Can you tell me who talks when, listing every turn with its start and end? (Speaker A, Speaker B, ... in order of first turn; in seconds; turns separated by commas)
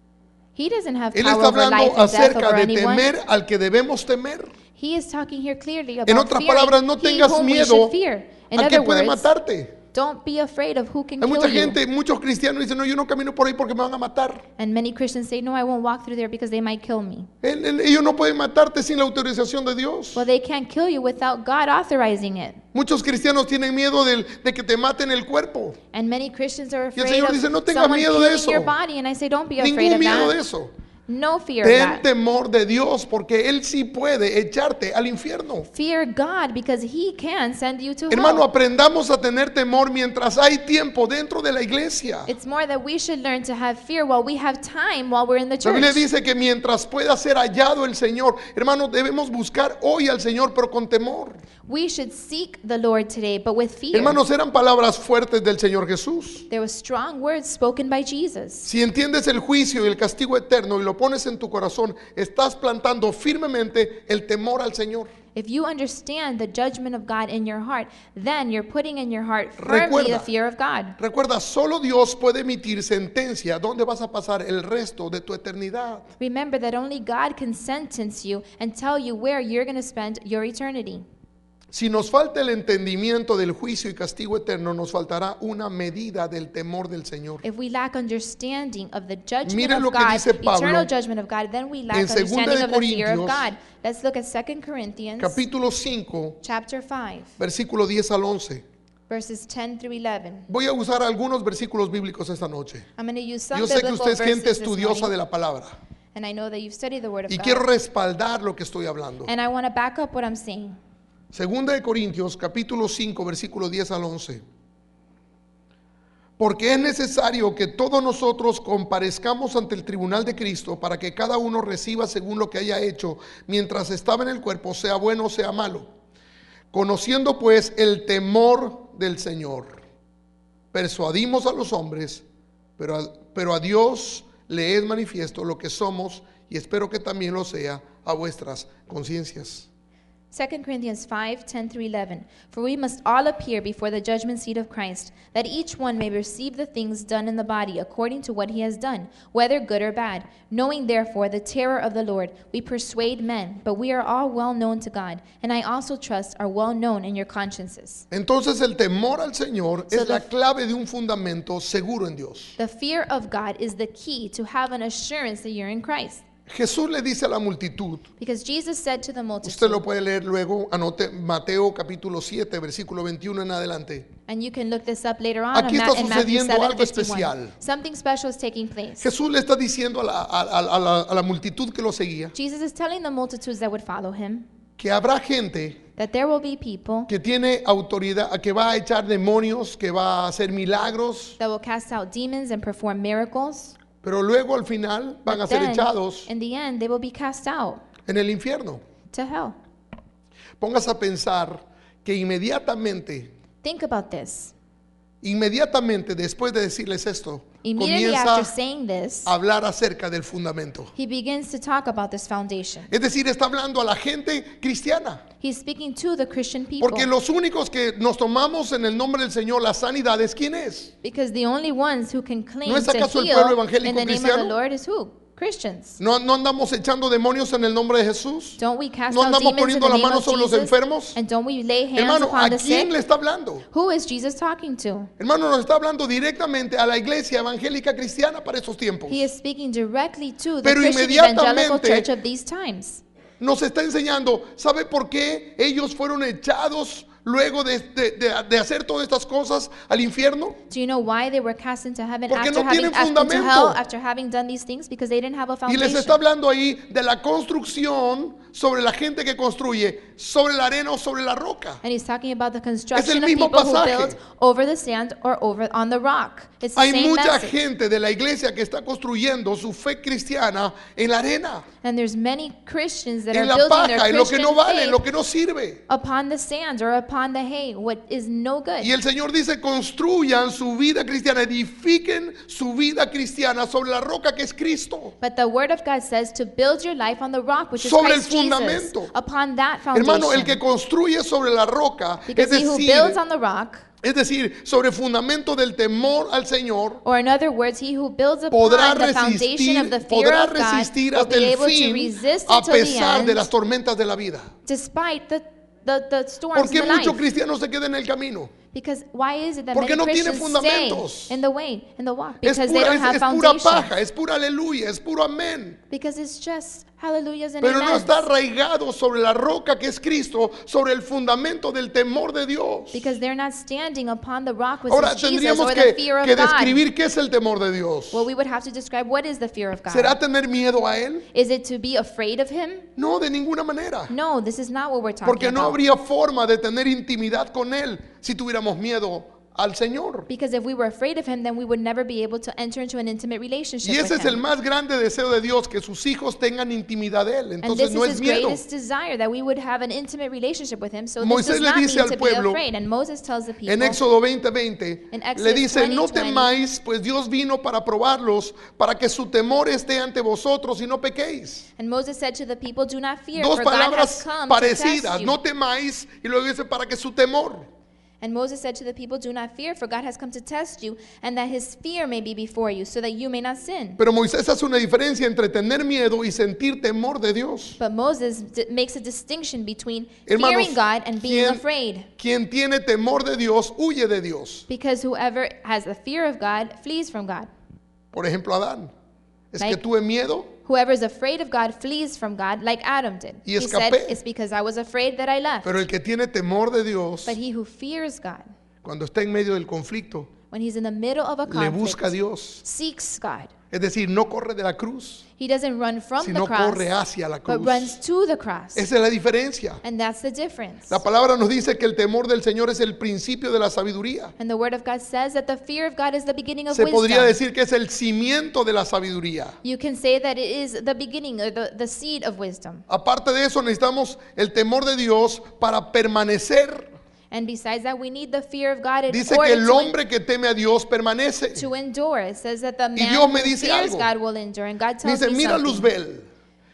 Speaker A: 0.5-3.1, Speaker B: 1.1-4.5, Speaker A: 4.8-9.3, Speaker B: 6.1-7.9, Speaker B: 8.5-9.8, Speaker A: 9.9-11.8, Speaker B: 11.2-14.4, Speaker A: 14.6-17.3, Speaker B: 17.4-20.2, Speaker A: 20.1-22.6, Speaker B: 22.7-25.8, Speaker A: 25.9-30.4, Speaker B: 26.9-28.7, Speaker B: 29.6-30.7, Speaker A: 31.1-32.0, Speaker B: 31.6-35.7, Speaker A: 35.7-38.4, Speaker B: 38.1-42.3, Speaker A: 42.3-46.0, Speaker B: 45.6-51.4, Speaker A: 51.6-54.2, Speaker B: 53.9-56.5, Speaker A: 56.5-58.7, Speaker B: 58.6-65.1, Speaker A: 65.3-71.0, Speaker B: 69.6-70.3, Speaker B: 71.0-76.1, Speaker A: 76.2-81.0, Speaker B: 81.7-87.4, Speaker A: 87.4-95.4, Speaker B: 89.4-90.9, Speaker B: 91.9-93.5, Speaker B: 95.2-96.4, Speaker A: 96.4-97.3, Speaker B: 97.4-98.6, Speaker A: 99.1-100.5, Speaker B: 100.5-102.9, Speaker A: 103.0-105.1, Speaker B: 103.5-105.8, Speaker A: 106.1-107.6, Speaker B: 107.3-109.3, Speaker A: 109.2-110.8, Speaker B: 111.3-114.4, Speaker B: 116.4-125.9, Speaker B: 126.7-129.8, Speaker B: 130.7-132.2, Speaker B: 132.8-139.7, Speaker A: 140.3-158.0, Speaker B: 158.1-162.5, Speaker A: 159.9-160.3, Speaker A: 162.6-166.2, Speaker B: 166.5-168.1, Speaker A: 168.2-169.8, Speaker B: 169.4-174.1, Speaker A: 174.3-179.1, Speaker B: 175.5-177.5, Speaker B: 179.0-182.3, Speaker A: 182.3-184.5, Speaker B: 184.8-185.8, Speaker A: 186.0-187.1, Speaker B: 187.1-191.4, Speaker A: 191.4-193.8, Speaker B: 194.0-196.3, Speaker A: 195.3-197.8, Speaker B: 198.1-198.8, Speaker A: 199.1-199.6, Speaker B: 200.6-203.3, Speaker A: 203.6-204.5, Speaker B: 205.2-208.5, Speaker A: 207.6-209.3, Speaker B: 209.2-210.9, Speaker A: 210.9-212.9, Speaker B: 212.9-215.2, Speaker A: 215.4-217.1, Speaker B: 216.8-220.9, Speaker A: 221.0-226.0, Speaker B: 222.7-224.5, Speaker B: 226.0-231.2, Speaker A: 228.6-232.9, Speaker B: 231.9-233.6, Speaker A: 233.7-235.1, Speaker B: 235.2-239.2, Speaker A: 239.1-243.0, Speaker B: 240.6-242.1, Speaker B: 243.4-250.6, Speaker A: 250.7-256.2, Speaker B: 252.3-253.8, Speaker B: 255.7-261.8, Speaker A: 261.8-267.5, Speaker B: 262.9-264.2, Speaker B: 266.7-271.6, Speaker A: 271.8-275.0, Speaker B: 273.3-275.8, Speaker A: 275.9-278.9, Speaker B: 278.8-285.1, Speaker A: 285.2-290.6, Speaker B: 287.8-289.1, Speaker B: 289.9-293.2, Speaker A: 292.3-293.9, Speaker B: 294.0-297.0, Speaker A: 297.0-303.5, Speaker B: 298.5-304.5, Speaker A: 304.6-307.2, Speaker B: 306.5-308.5, Speaker A: 308.7-313.9, Speaker B: 309.7-311.4, Speaker B: 312.4-315.8, Speaker A: 315.9-318.2, Speaker B: 317.6-323.1, Speaker A: 322.9-326.8, Speaker B: 324.9-328.3, Speaker A: 328.1-330.1, Speaker B: 329.9-331.3, Speaker A: 331.3-332.9, Speaker B: 332.9-334.1, Speaker A: 334.1-335.8, Speaker B: 335.2-340.3, Speaker A: 340.3-344.4, Speaker B: 343.8-348.6, Speaker A: 347.6-354.0, Speaker B: 351.2-352.6, Speaker B: 353.6-361.7, Speaker A: 355.1-356.6, Speaker A: 361.8-365.4, Speaker B: 363.4-367.7, Speaker A: 368.2-374.0, Speaker B: 374.0-377.8, Speaker A: 377.8-382.1, Speaker B: 380.3-381.6, Speaker B: 382.2-384.6, Speaker A: 384.7-387.5, Speaker B: 388.1-388.9, Speaker B: 389.5-390.5, Speaker A: 390.6-395.8, Speaker B: 393.4-394.2, Speaker B: 395.6-397.4, Speaker A: 397.2-398.5, Speaker B: 398.8-400.3, Speaker A: 400.5-403.5, Speaker B: 401.4-402.6, Speaker B: 403.7-405.2, Speaker A: 405.4-406.9, Speaker B: 406.2-407.9, Speaker A: 407.4-408.8, Speaker B: 408.8-409.8, Speaker A: 409.8-411.0, Speaker B: 410.9-414.3, Speaker A: 414.4-417.4, Speaker B: 416.7-419.6, Speaker A: 419.6-422.8, Speaker B: 422.9-426.9, Speaker A: 427.3-429.9, Speaker B: 429.1-431.6, Speaker A: 431.5-435.9, Speaker B: 432.9-434.1, Speaker B: 435.0-436.2